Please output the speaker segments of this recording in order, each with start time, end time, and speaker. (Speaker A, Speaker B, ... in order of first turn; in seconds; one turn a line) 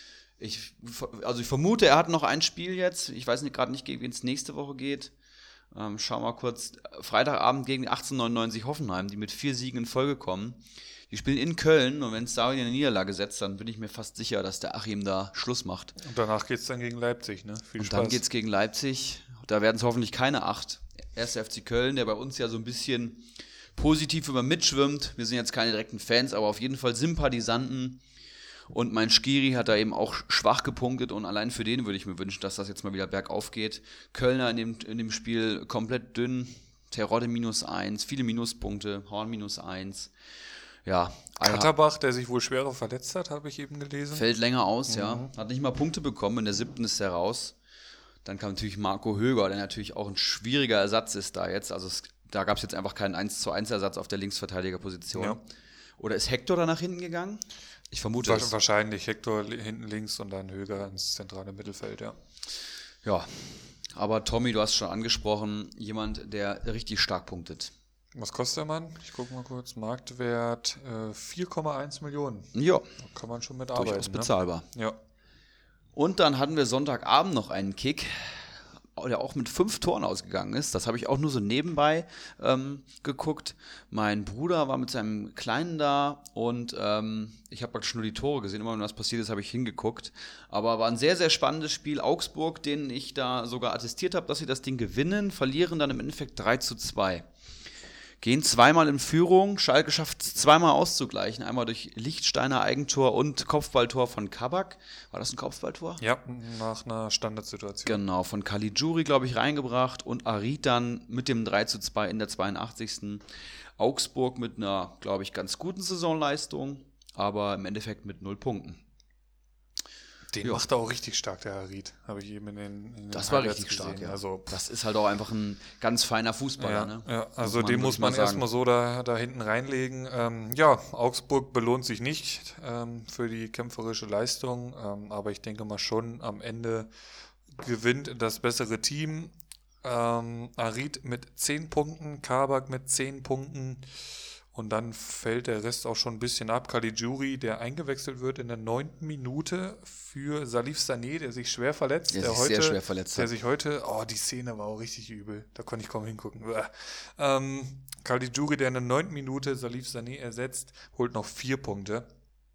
Speaker A: 0.4-5.1
Speaker A: 5.7-15.9
Speaker B: 16.0-18.2
Speaker A: 17.8-23.2
Speaker A: 23.8-28.0
Speaker A: 28.7-40.1
Speaker A: 40.9-41.7
Speaker B: 41.4-44.2
Speaker A: 44.1-47.5
Speaker B: 44.9-45.3
Speaker A: 48.2-55.4
Speaker B: 55.1-55.4
Speaker A: 56.0-58.5
Speaker B: 58.2-62.2
Speaker A: 63.0-67.7
Speaker B: 68.1-75.0
Speaker A: 72.5-72.9
Speaker A: 73.8-74.7
Speaker A: 76.0-97.3
Speaker A: 98.2-106.0
Speaker B: 106.0-108.0
Speaker A: 107.8-113.2
Speaker A: 113.8-118.8
Speaker B: 120.3-124.5
Speaker A: 123.1-128.4
Speaker B: 126.6-136.9
Speaker B: 137.5-162.1
Speaker A: 152.1-153.3